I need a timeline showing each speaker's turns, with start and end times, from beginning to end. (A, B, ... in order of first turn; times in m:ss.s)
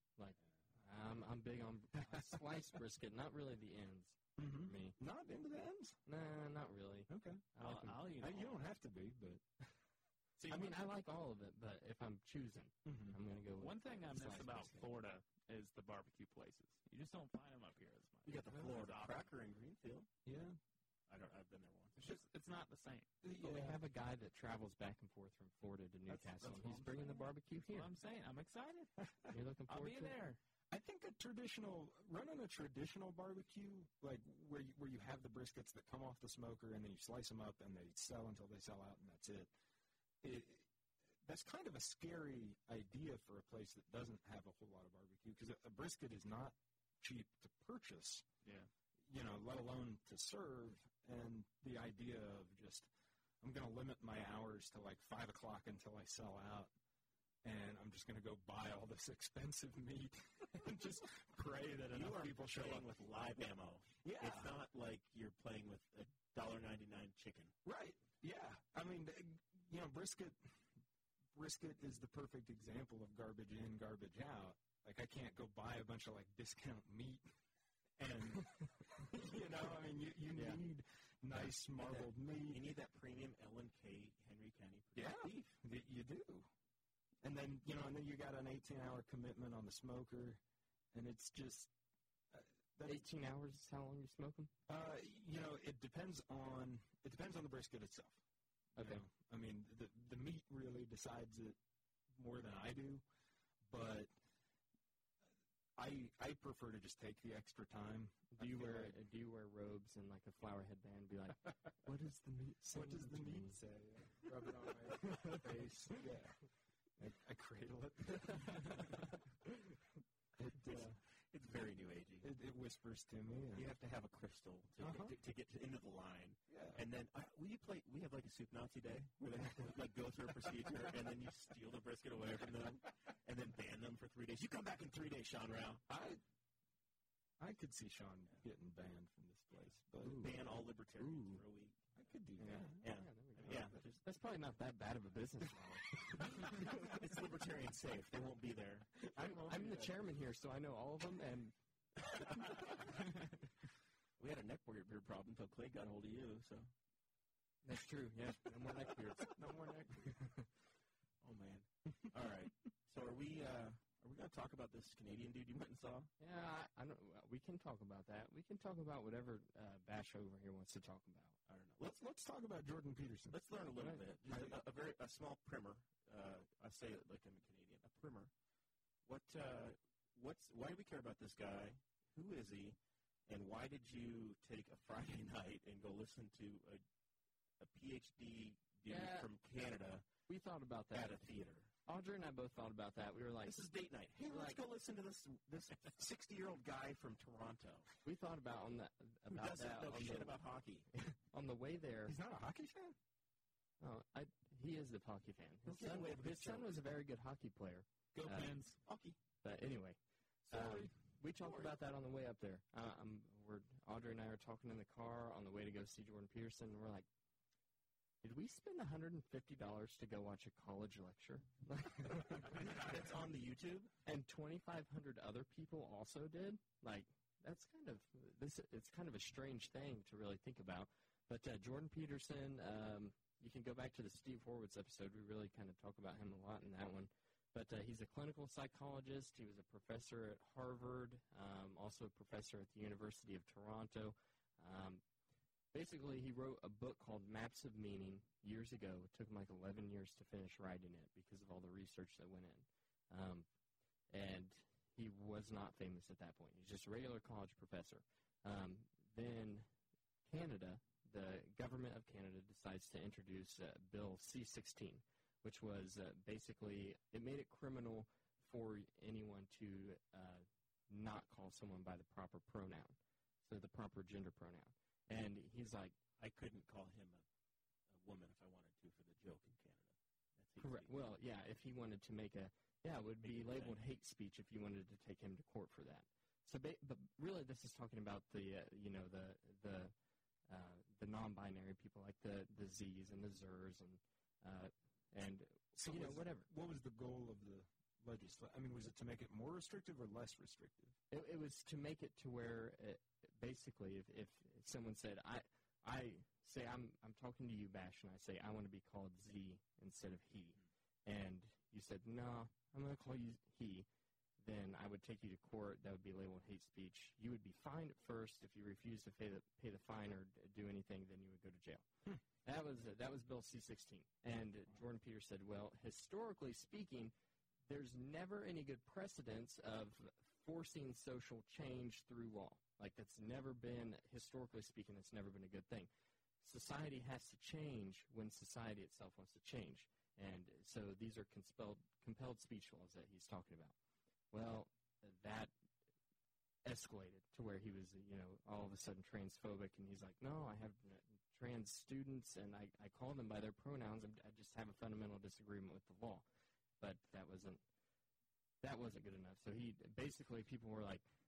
0:00.2-0:05.0 A
0:02.1-0:02.4 B
0:04.4-0:06.0 B
0:06.1-0:08.1 A
0:07.1-0:07.5 B
0:07.6-0:08.6 C
0:08.1-0:09.4 B
0:10.4-0:14.9 A
0:12.8-0:13.2 B
0:13.6-0:19.2 C
0:18.2-0:20.1 D
0:20.2-0:20.6 B
0:21.1-0:22.1 D
0:22.0-0:23.1 C
0:23.2-0:23.8 B
0:23.4-0:27.9 A
0:26.1-0:28.9 C
0:29.3-0:30.2 A
0:29.7-0:30.4 C
0:30.7-0:39.5 B
0:40.2-0:40.7 B
0:41.2-0:48.2 B
0:48.4-0:48.7 C
0:49.1-0:52.9 B
0:53.4-0:56.7 B
0:57.4-1:02.9 B
1:01.9-1:07.5 D
1:04.0-1:04.6 B
1:07.6-1:10.6 B
1:11.3-1:17.2 B
1:18.0-1:22.7 B
1:20.4-1:20.6 A
1:21.9-1:25.5 D
1:25.0-1:26.5 B
1:27.2-1:30.4 B
1:30.9-1:31.7 B
1:32.3-1:33.1 B
1:32.8-1:34.5 A
1:34.7-1:38.2 B
1:38.8-1:41.6 B
1:38.8-1:39.0 A
1:42.2-1:43.0 B
1:43.7-1:44.1 B
1:45.8-1:49.0 B
1:48.3-1:53.6 A
1:52.7-1:56.4 B
1:55.0-1:55.7 A
1:57.0-1:59.2 B
2:00.4-2:01.0 B
2:00.7-2:02.3 D
2:02.2-2:03.7 B
2:03.5-2:15.8 D
2:04.8-2:05.2 B
2:06.5-2:06.8 B
2:09.3-2:09.7 B
2:15.9-2:16.2 B
2:17.4-2:20.3 B
2:20.0-2:21.9 D
2:20.0-2:20.4 A
2:21.0-2:21.4 A
2:22.0-2:22.8 B
2:22.4-2:26.6 A
2:22.8-2:24.0 D
2:23.4-2:23.8 B
2:26.3-2:29.0 D
2:29.0-2:30.0 B
2:29.1-2:31.5 A
2:34.2-2:36.7 D
2:37.6-2:39.4 A
2:39.2-2:40.3 B
2:40.2-2:40.4 A
2:41.2-2:46.1 D
2:46.2-2:51.4 A
2:51.5-2:51.8 D
2:51.8-2:53.4 B
2:53.3-2:58.3 D
2:54.2-2:54.6 B
2:59.1-3:02.8 D
3:03.3-3:06.8 D
3:07.6-3:10.1 D
3:08.9-3:09.3 A
3:10.3-3:11.2 A
3:10.9-3:11.7 D
3:11.9-3:13.6 A
3:13.4-3:17.9 D
3:14.3-3:14.6 A
3:18.0-3:20.4 A
3:19.3-3:20.9 D
3:20.9-3:22.2 A
3:22.1-3:23.0 B
3:23.8-3:28.6 A
3:25.7-3:26.8 D
3:28.2-3:28.8 C
3:28.8-3:29.2 D
3:29.4-3:30.0 A
3:30.5-3:37.1 A
3:30.5-3:30.9 D
3:31.4-3:31.7 D
3:38.2-3:42.8 A
3:42.4-3:43.9 D
3:44.0-4:05.0 A
4:05.7-4:13.5 A
4:14.1-4:19.7 A
4:20.3-4:35.9 A
4:36.2-4:37.2 D
4:37.9-4:40.9 D
4:40.6-4:49.9 A
4:43.2-4:43.8 D
4:50.5-4:56.5 A
4:55.7-5:01.0 B
5:01.1-5:13.9 A
5:14.4-5:21.8 A
5:22.4-5:27.1 A
5:27.7-5:35.9 A
5:36.4-5:43.8 A
5:44.3-5:45.5 A
5:46.6-5:56.2 A
5:56.8-5:57.6 A
5:58.6-6:01.0 A